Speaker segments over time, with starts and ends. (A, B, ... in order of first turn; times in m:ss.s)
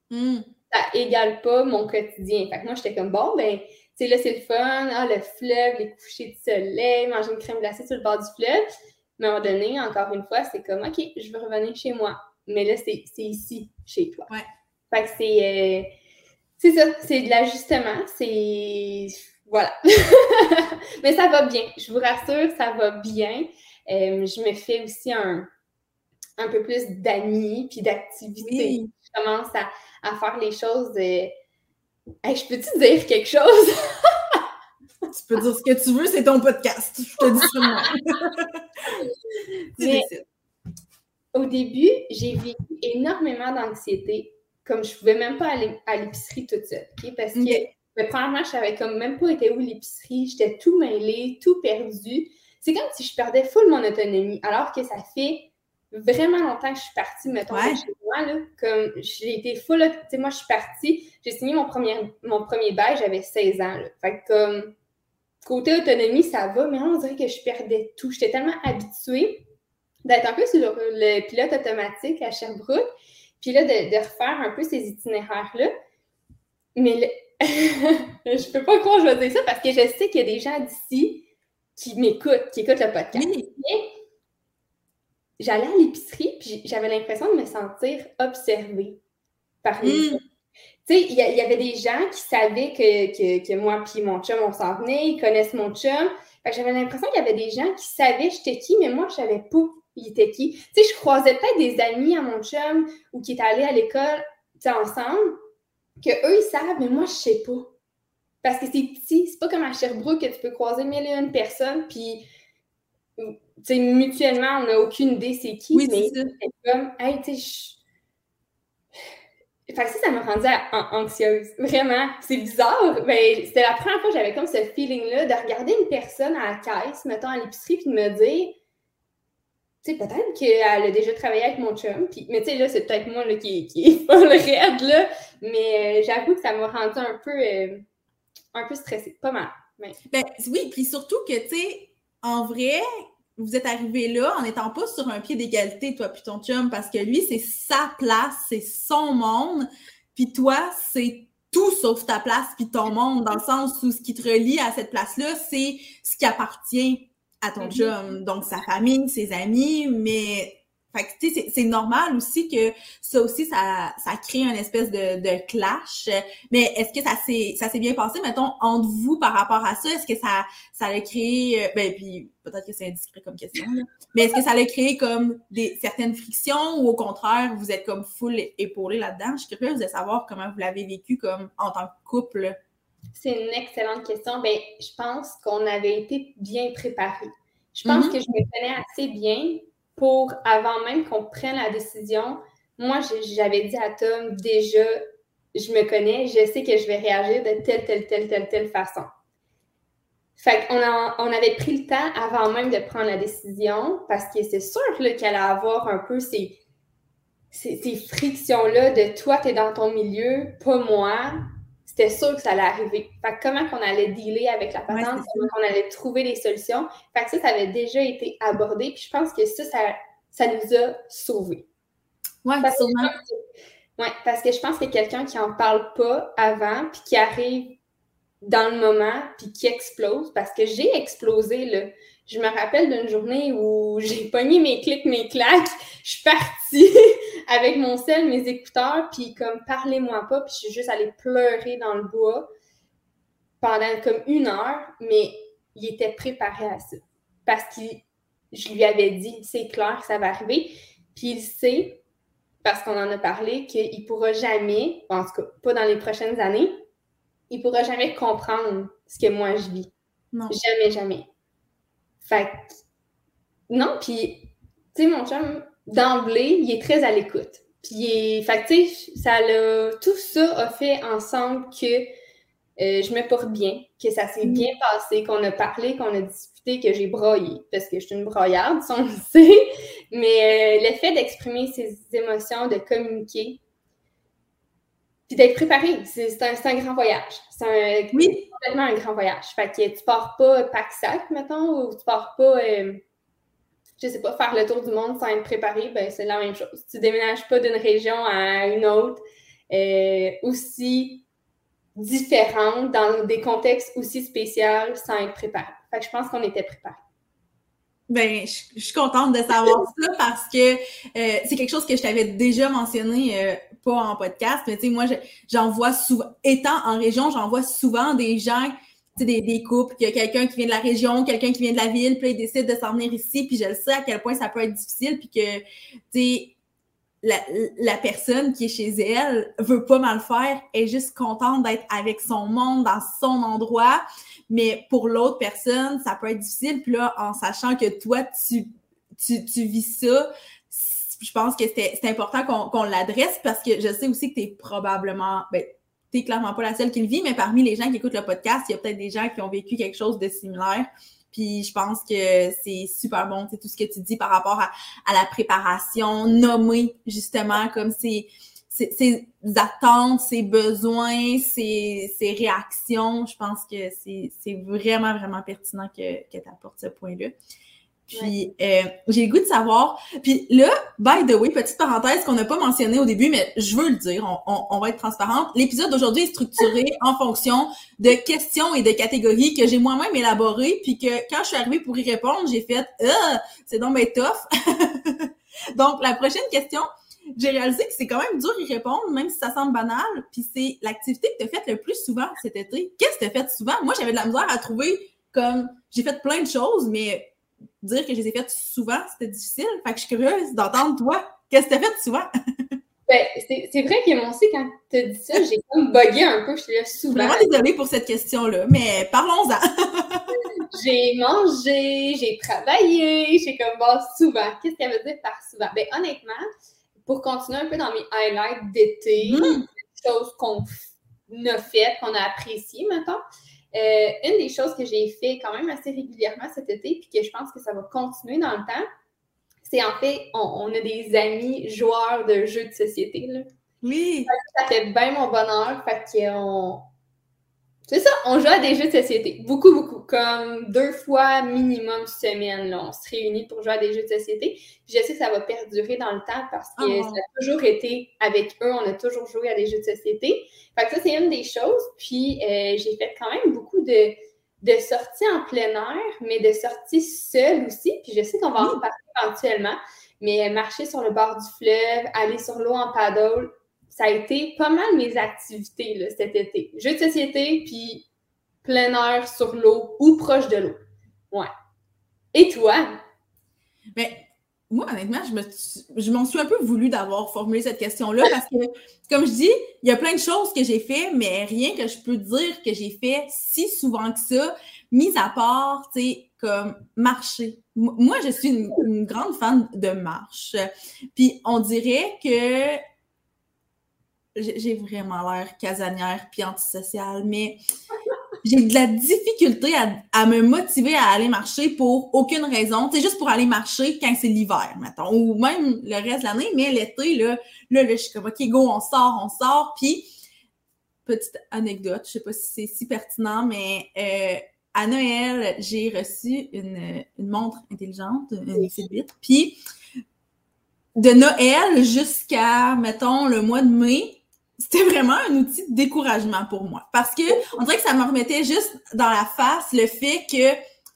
0:00.1-0:00.5 A
0:00.7-0:08.6 B
0:09.2-0:14.3 B
0:14.9-0:15.9 B
0:16.6-0:25.5 B
0:26.4-0:31.3 B
0:28.4-0:28.9 A
0:32.2-0:34.4 B
0:35.1-0:38.6 A
0:37.4-0:37.8 B
0:39.8-0:40.1 B
0:39.8-0:40.2 A
0:41.3-1:04.7 B
0:47.3-0:47.7 A
0:57.5-0:57.8 A
1:05.4-1:09.4 B
1:10.0-1:12.9 B
1:13.4-1:15.7 B
1:16.7-1:21.2 B
1:21.8-1:23.9 B
1:23.1-1:23.5 A
1:25.4-1:29.0 B
1:29.6-1:30.2 B
1:29.8-1:30.2 A
1:30.8-1:45.3 B
1:46.0-1:47.7 B
1:48.4-1:52.2 B
1:53.2-1:57.8 B
1:55.7-1:56.3 A
1:59.7-2:08.6 B
2:09.8-2:17.8 B
2:18.5-2:20.0 B
2:20.1-2:22.8 A
2:23.4-3:02.6 A
2:37.6-2:38.0 B
3:03.1-3:15.0 B
3:07.8-3:08.2 A
3:15.5-3:19.1 B
3:20.4-3:26.6 B
3:27.5-3:41.7 B
3:34.9-3:35.5 A
3:42.4-3:43.1 A
3:42.6-3:43.4 B
3:44.0-3:47.8 B
3:48.4-3:56.9 B
3:57.5-4:02.5 B
4:03.6-4:12.0 B
4:12.6-4:16.8 B
4:17.5-4:19.9 B
4:20.5-4:21.3 B
4:22.2-4:22.6 B
4:23.7-4:32.1 B
4:32.8-4:43.6 B
4:45.3-4:53.0 B
4:48.1-4:48.4 A
4:54.0-5:01.2 B
5:02.0-5:07.0 B
5:08.1-5:26.5 A
5:27.2-6:07.3 A
6:08.1-6:42.3 A
6:43.1-6:47.5 B
6:47.1-6:50.4 A
6:50.7-6:56.4 B
6:57.0-7:03.2 B
6:59.2-6:59.7 A
7:03.7-7:08.8 B
7:09.6-7:13.5 B
7:13.8-7:14.3 A
7:14.3-7:16.9 B
7:17.9-7:48.0 B
7:26.8-7:27.2 A
7:48.6-7:51.5 B
7:52.3-7:52.9 B
7:54.0-8:12.8 A
8:14.3-8:17.6 A
8:18.4-8:30.1 A
8:31.0-8:39.6 A
8:41.0-8:50.6 A